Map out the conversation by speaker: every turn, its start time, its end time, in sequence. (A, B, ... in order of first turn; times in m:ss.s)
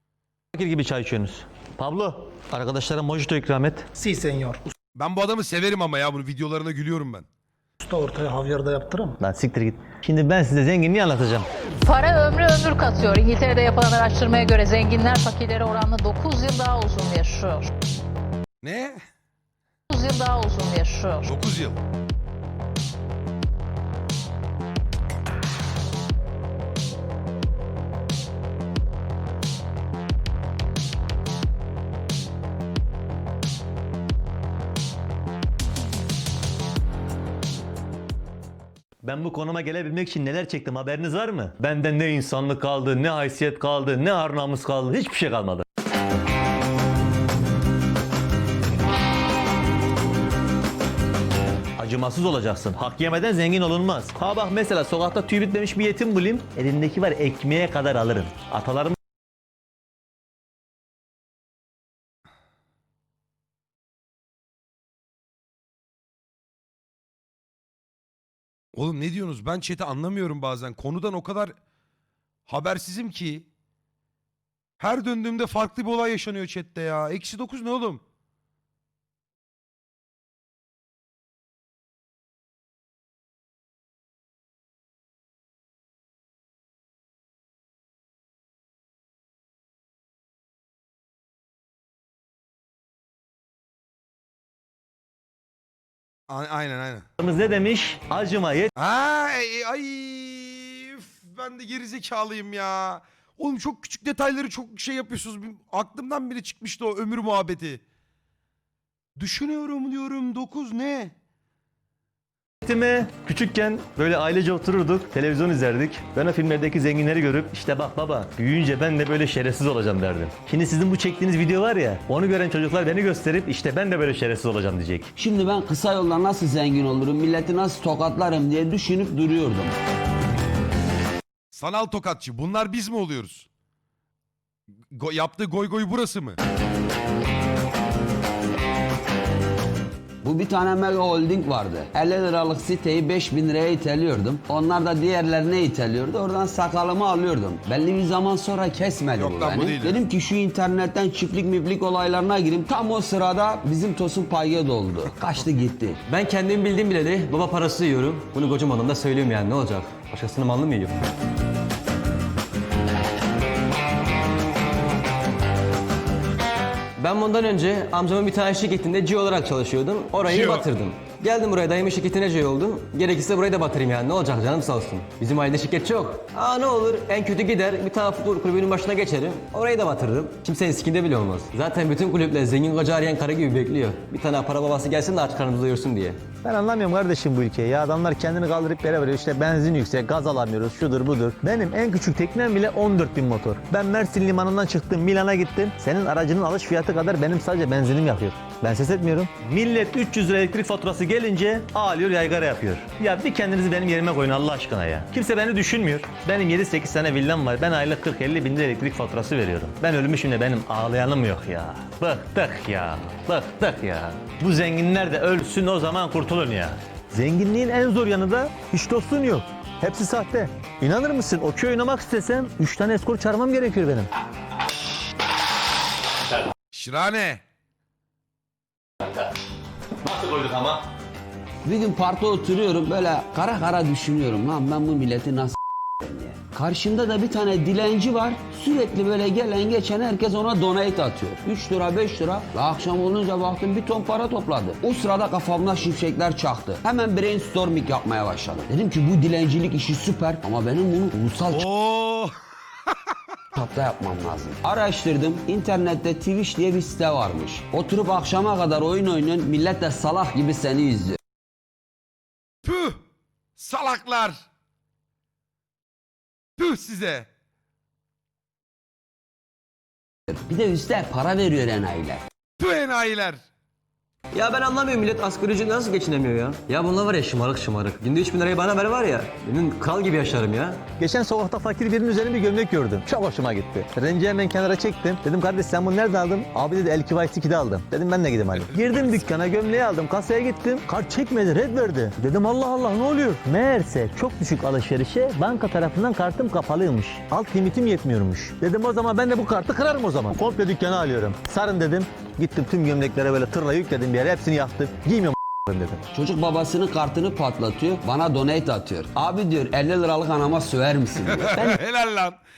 0:00.5-0:03.9 A
0:04.0-0:04.6 B
0:05.0-0:07.3 C
0:07.8-0:09.2 B
0:09.2-0:11.5 A
0:11.8-0:17.7 D
0:18.6-0:19.0 C
0:19.9-0:21.4 D
0:21.2-0:21.8 C
0:39.0-0:45.6 A
0:51.8-0:59.0 A
1:08.8-1:11.5 C
1:12.5-1:13.5 C
1:14.8-1:18.0 C
1:36.3-1:37.0 C
1:37.2-1:38.7 A
1:38.8-1:47.8 C
1:49.2-1:51.1 C
1:52.6-2:05.1 A
2:05.2-2:09.8 E
2:11.5-2:13.5 C
2:14.9-2:16.4 C
2:20.2-2:36.0 E
2:29.2-2:30.0 C
2:36.1-2:41.0 F
2:47.0-3:06.2 F
2:50.3-2:50.7 C
3:06.4-3:44.1 A
3:46.7-3:47.4 C
3:49.0-3:49.3 A
3:50.0-3:50.9 A
3:51.6-4:11.7 E
4:11.5-4:12.3 C
4:13.5-4:21.2 E
4:22.6-4:23.0 C
4:23.6-4:24.4 C
4:26.6-4:27.3 C
4:30.3-4:32.2 E
4:32.6-4:33.4 C
4:34.3-4:40.8 F
4:41.0-5:06.0 A
5:06.1-5:11.8 E
5:11.3-5:12.4 C